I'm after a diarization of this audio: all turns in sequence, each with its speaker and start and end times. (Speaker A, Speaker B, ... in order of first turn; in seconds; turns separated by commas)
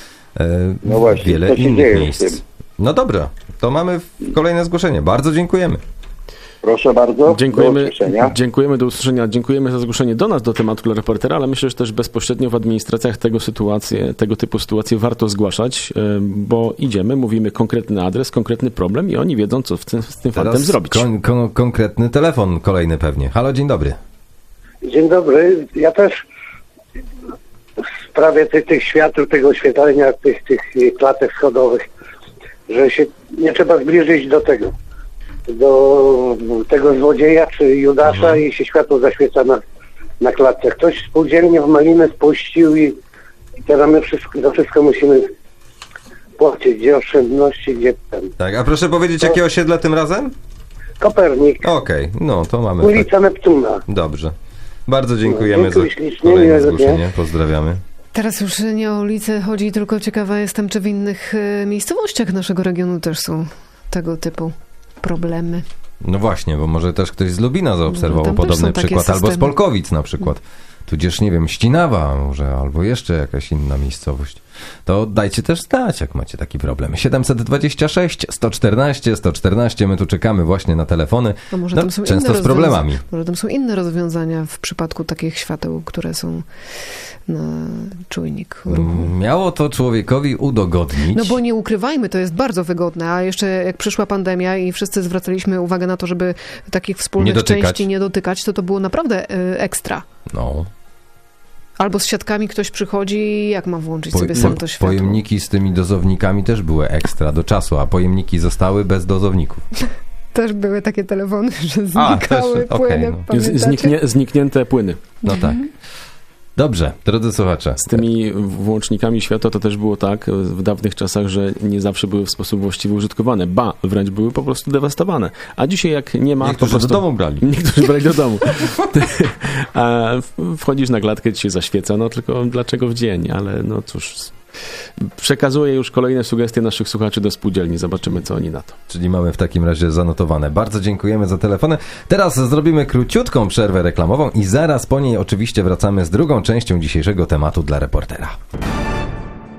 Speaker A: 0.3-5.8, Speaker B: 0.8-2.4, Speaker B: 6.6-8.3, Speaker C: 7.3-21.1, Speaker A: 20.3-24.0, Speaker D: 24.8-26.2, Speaker D: 27.8-31.9, Speaker D: 32.7-34.7, Speaker D: 35.5-39.6, Speaker A: 38.0-38.4, Speaker D: 40.2-43.0, Speaker D: 43.6-45.3, Speaker D: 46.4-48.3, Speaker A: 48.4-50.4, Speaker D: 51.0-51.6, Speaker A: 51.6-53.1, Speaker D: 52.8-53.8, Speaker A: 53.9-54.4, Speaker A: 54.9-57.8, Speaker D: 55.3-57.0, Speaker E: 58.1-65.6, Speaker A: 66.0-83.0, Speaker E: 67.9-69.5, Speaker E: 81.5-86.5, Speaker E: 87.3-89.1, Speaker A: 88.7-91.4, Speaker E: 91.1-100.0, Speaker A: 97.2-97.9, Speaker A: 100.3-100.7, Speaker E: 101.8-105.2, Speaker A: 104.1-109.7, Speaker E: 110.3-114.0, Speaker A: 112.0-113.3, Speaker C: 113.3-115.0, Speaker E: 115.2-115.7, Speaker A: 115.2-115.7, Speaker A: 116.6-118.0, Speaker C: 117.8-134.4, Speaker A: 126.4-127.5, Speaker C: 135.1-138.8, Speaker A: 138.9-148.4